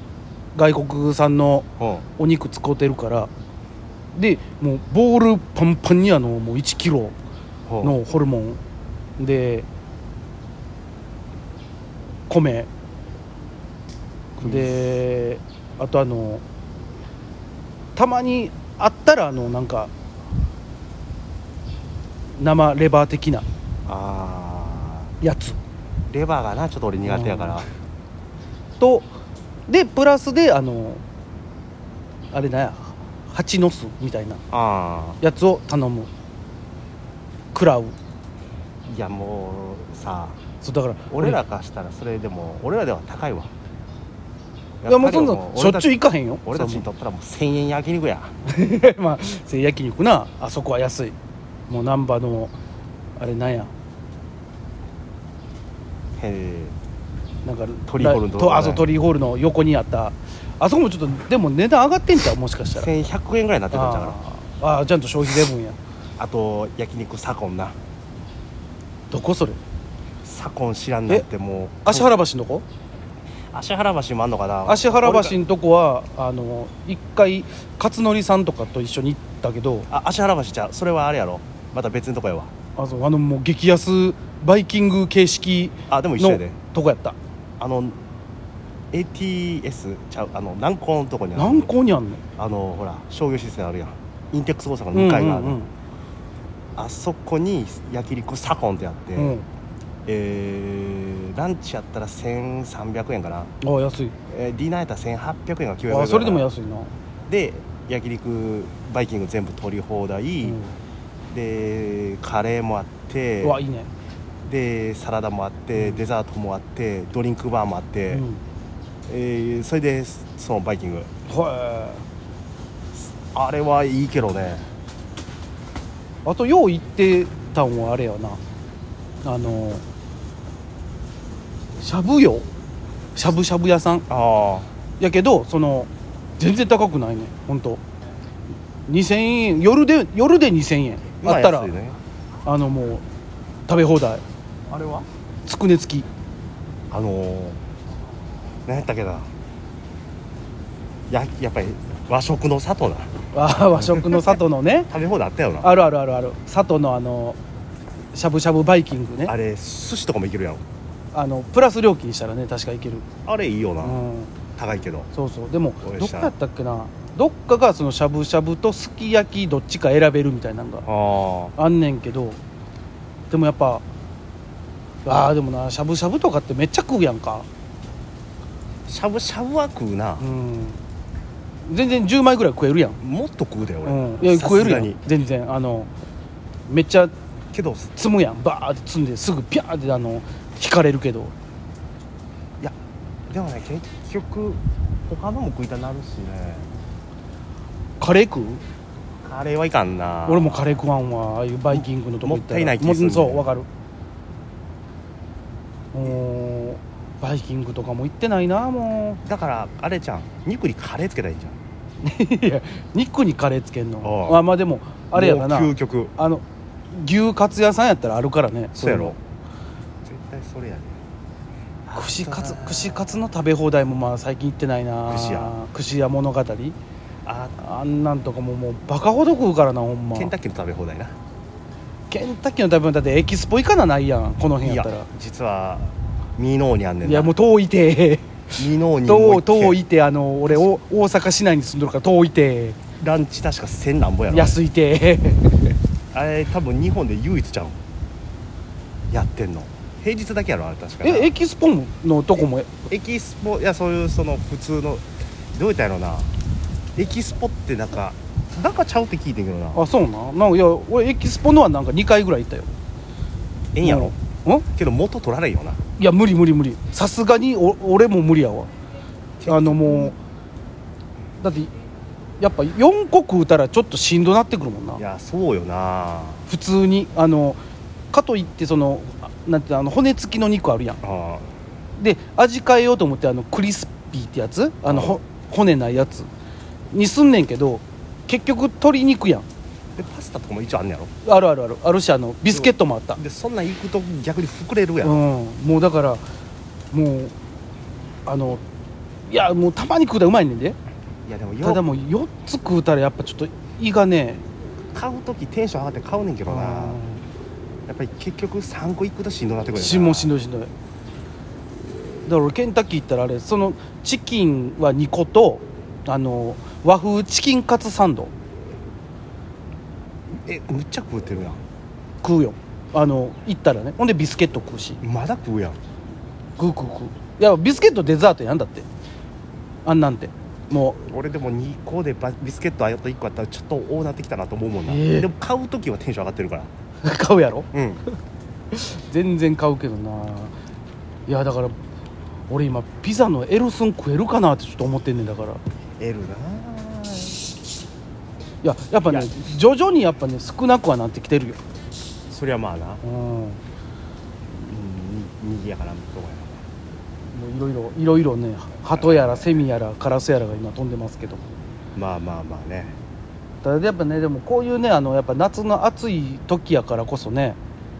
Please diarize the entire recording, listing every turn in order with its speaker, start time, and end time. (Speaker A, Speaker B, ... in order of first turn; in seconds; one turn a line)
Speaker A: 0.5-3.3
Speaker B: 1.8-2.0
Speaker A: 4.1-7.2
Speaker B: 7.7-7.9
Speaker A: 7.8-8.6
Speaker A: 9.2-9.7
Speaker A: 12.3-12.7
Speaker A: 14.4-16.4
Speaker B: 14.4-14.7
Speaker A: 17.9-19.9
Speaker A: 22.3-23.4
Speaker B: 23.9-25.1
Speaker A: 25.2-25.6
Speaker B: 26.1-27.7
Speaker A: 27.0-27.6
Speaker A: 28.8-29.1
Speaker A: 29.7-31.0
Speaker A: 32.3-34.4
Speaker B: 34.5-35.2
Speaker A: 35.2-36.1
Speaker A: 37.5-37.9
Speaker B: 38.9-40.4
Speaker A: 40.6-41.4
Speaker B: 41.1-43.5
Speaker B: 44.8-48.3
Speaker A: 44.9-46.8
Speaker A: 48.5-51.1
Speaker A: 51.7-52.5
Speaker A: 53.2-53.7
Speaker B: 56.2-56.8
Speaker A: 57.4-62.9
Speaker B: 57.9-58.9
Speaker B: 62.7-64.2
Speaker A: 63.7-65.8
Speaker B: 66.2-67.8
Speaker A: 69.1-69.6
Speaker B: 70.2-72.1
Speaker A: 71.8-72.6
Speaker B: 73.5-75.4
Speaker A: 74.7-79.9
Speaker B: 79.9-82.5
Speaker A: 82.8-87.2
Speaker B: 85.9-86.5
Speaker B: 87.6-88.0
Speaker B: 88.9-91.7
Speaker A: 91.3-92.2
Speaker B: 92.4-95.6
Speaker A: 94.9-95.7
Speaker B: 96.8-99.3
Speaker A: 99.2-99.4
Speaker B: 100.0-103.5
Speaker A: 103.6-104.1
Speaker B: 104.3-106.5
Speaker A: 105.9-106.9
Speaker B: 107.3-110.6
Speaker A: 110.4-110.8
Speaker B: 111.3-113.6
Speaker A: 113.4-113.9
Speaker B: 114.4-118.2
Speaker A: 115.8-116.0
Speaker A: 118.1-118.4
Speaker B: 119.1-121.1
Speaker A: 121.3-122.0
Speaker B: 122.9-124.7
Speaker A: 126.2-128.4
Speaker A: 129.2-129.8
Speaker A: 131.8-132.4
Speaker A: 133.1-134.0
Speaker B: 134.1-134.7
Speaker A: 135.0-137.8
Speaker A: 138.9-141.7
Speaker B: 141.2-142.0
Speaker A: 142.4-143.0
Speaker A: 143.7-144.2
Speaker B: 144.7-145.1
Speaker A: 145.4-146.1
Speaker B: 146.9-147.6
Speaker B: 148.7-149.3
Speaker B: 151.1-153.1
Speaker A: 153.3-154.9
Speaker B: 153.8-154.2
Speaker B: 154.9-155.7
Speaker A: 155.6-157.4
Speaker A: 158.1-159.3
Speaker B: 159.3-160.6
Speaker A: 161.1-163.1
Speaker B: 163.2-164.0
Speaker A: 163.8-164.4
Speaker B: 164.6-165.1
Speaker A: 165.1-170.8
Speaker B: 165.8-166.3
Speaker B: 170.8-171.5
Speaker A: 171.6-172.4
Speaker A: 173.3-173.8
Speaker A: 175.0-177.5
Speaker B: 178.9-180.2
Speaker A: 180.2-180.8
Speaker A: 181.7-183.0
Speaker B: 183.0-185.0
Speaker A: 183.8-185.9
Speaker A: 186.7-187.1
Speaker B: 187.5-187.9
Speaker A: 188.0-191.3
Speaker B: 193.3-196.7
Speaker A: 198.0-198.6
Speaker B: 199.2-200.8
Speaker A: 200.3-203.7
Speaker B: 201.7-203.5
Speaker A: 205.9-209.2
Speaker B: 209.2-211.6
Speaker A: 212.0-219.2
Speaker B: 214.0-214.4
Speaker B: 215.1-216.1
Speaker B: 218.7-219.2
Speaker B: 220.0-221.0
Speaker B: 221.8-223.2
Speaker A: 221.9-226.8
Speaker B: 225.1-225.5
Speaker B: 227.2-227.6
Speaker A: 227.6-230.3
Speaker B: 230.1-231.1
Speaker A: 232.1-235.1
Speaker B: 234.6-237.3
Speaker A: 237.0-242.8
Speaker B: 238.6-239.8
Speaker B: 243.0-244.6
Speaker A: 244.3-245.8
Speaker B: 246.1-247.8
Speaker B: 249.1-251.3
Speaker A: 251.0-252.7
Speaker B: 252.9-256.3
Speaker B: 256.9-259.8
Speaker A: 259.7-262.7
Speaker B: 263.7-264.1
Speaker A: 263.8-264.6
Speaker B: 264.8-265.8
Speaker A: 266.0-268.7
Speaker B: 269.4-270.1
Speaker A: 269.4-270.1
Speaker A: 271.4-271.7
Speaker A: 272.4-275.0
Speaker B: 275.0-276.4
Speaker A: 276.5-277.6
Speaker A: 278.1-281.0
Speaker B: 281.0-281.5
Speaker A: 282.0-286.3
Speaker B: 284.9-285.2
Speaker A: 286.9-289.4
Speaker B: 290.0-291.1
Speaker A: 291.2-293.2
Speaker B: 292.5-295.2
Speaker A: 295.0-296.2
Speaker A: 296.9-297.3
Speaker A: 298.2-298.6
Speaker A: 299.3-300.8
Speaker B: 301.2-301.8
Speaker A: 301.6-304.4
Speaker B: 304.9-307.0
Speaker A: 306.5-307.2
Speaker B: 307.9-310.3
Speaker A: 309.7-310.7
Speaker A: 312.2-318.3
Speaker B: 320.4-321.6
Speaker A: 322.2-325.0
Speaker B: 325.0-325.8
Speaker A: 326.6-328.9
Speaker A: 329.8-331.0
Speaker B: 331.0-336.7
Speaker A: 334.9-335.3
Speaker A: 337.0-337.7
Speaker B: 337.7-338.0
Speaker A: 338.7-340.5
Speaker A: 341.3-341.8
Speaker A: 342.5-345.6
Speaker B: 346.0-347.5
Speaker A: 348.6-351.6
Speaker B: 349.1-349.3
Speaker B: 352.3-353.0
Speaker A: 353.0-353.6
Speaker B: 354.5-356.6
Speaker A: 357.3-361.4
Speaker B: 358.9-359.5
Speaker B: 361.9-362.9
Speaker A: 363.6-367.6